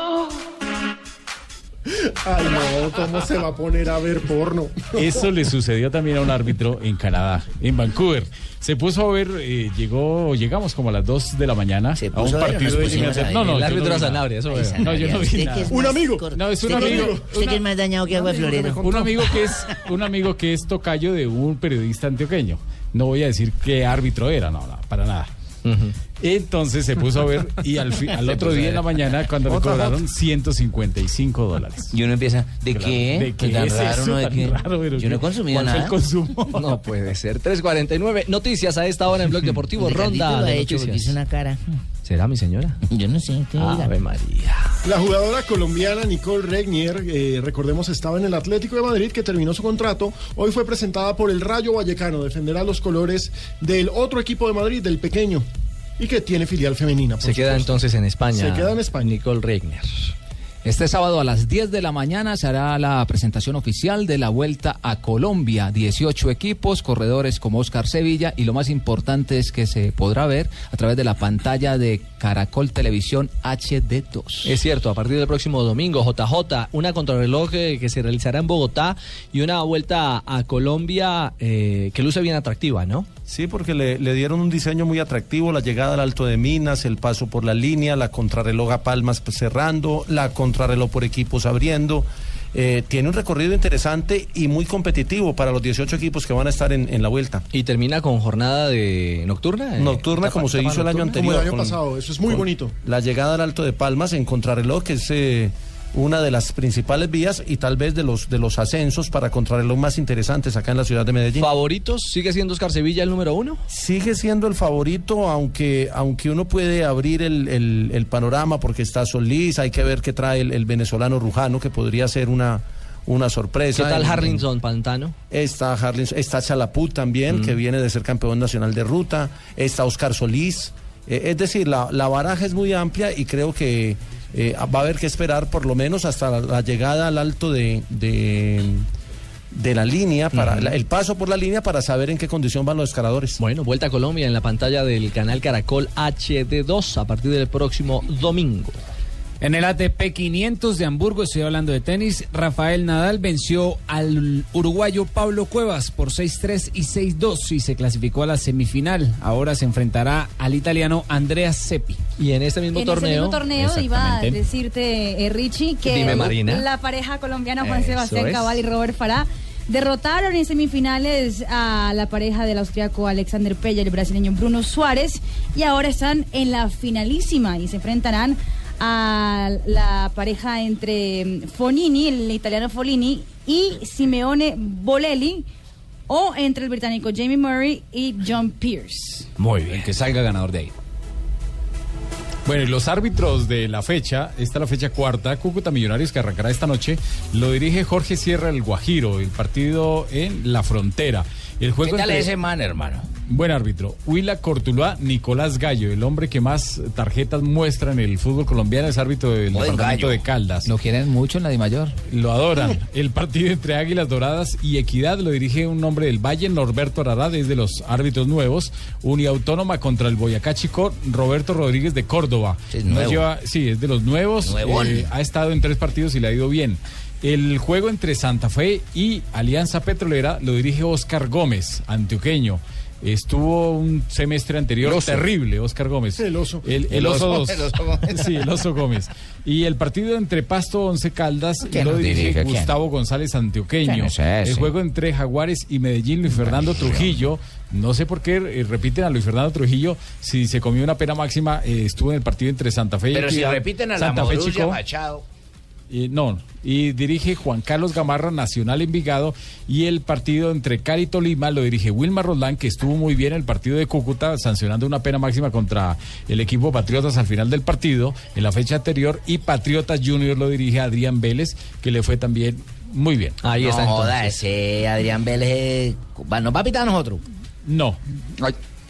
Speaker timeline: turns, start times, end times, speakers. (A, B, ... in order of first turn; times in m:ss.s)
0:01.9-0:05.2 A
0:05.0-0:25.3 B
0:12.0-0:13.3 C
0:12.3-0:13.2 D
0:12.8-0:15.3 E
0:14.5-0:19.5 C
0:15.7-0:17.3 A
0:25.6-0:25.9 E
0:26.2-0:32.0 B
0:28.4-0:28.8 E
0:29.5-0:29.9 D
0:31.9-0:36.0 D
0:32.7-0:36.7 B
0:36.5-0:41.2 E
0:39.8-0:41.8 C
0:42.0-0:42.8 E
0:42.9-0:43.9 C
0:43.6-0:44.7 E
0:44.8-0:55.5 A
0:56.0-0:57.8 A
0:57.2-1:00.1 E
0:58.3-0:59.1 A
1:00.6-1:14.6 F
1:14.4-1:23.1 E
1:23.3-1:37.4 G
1:37.5-1:40.8 E
1:39.8-1:51.5 G
1:40.7-1:42.7 A
1:51.4-1:53.6 E
1:53.7-2:04.5 G
2:03.7-2:05.1 E
2:05.3-2:18.9 G
2:07.3-2:07.6 E
2:19.5-2:23.4 G
2:20.3-2:20.8 E
2:23.4-2:28.8 E
2:29.4-2:42.0 H
2:42.2-2:43.5 E
2:42.7-3:05.5 I
2:43.6-2:44.4 B
2:45.8-2:46.7 E
2:47.6-2:48.6 E
3:06.1-3:09.3 I
3:09.4-3:10.7 F
3:12.5-3:22.4 B
3:21.8-3:23.0 D
3:23.3-3:30.7 B
3:29.5-3:30.3 D
3:30.6-3:32.0 F
3:32.1-4:14.8 B
3:42.7-3:43.3 D
3:44.4-3:45.1 D
3:56.2-3:56.7 A
3:56.9-3:58.4 D
4:01.7-4:02.7 D
4:03.8-4:04.7 D
4:06.4-4:07.2 D
4:13.1-4:15.2 D
4:15.9-4:33.4 B
4:33.4-4:34.4 E
4:33.6-4:37.2 D
4:37.6-4:38.0 B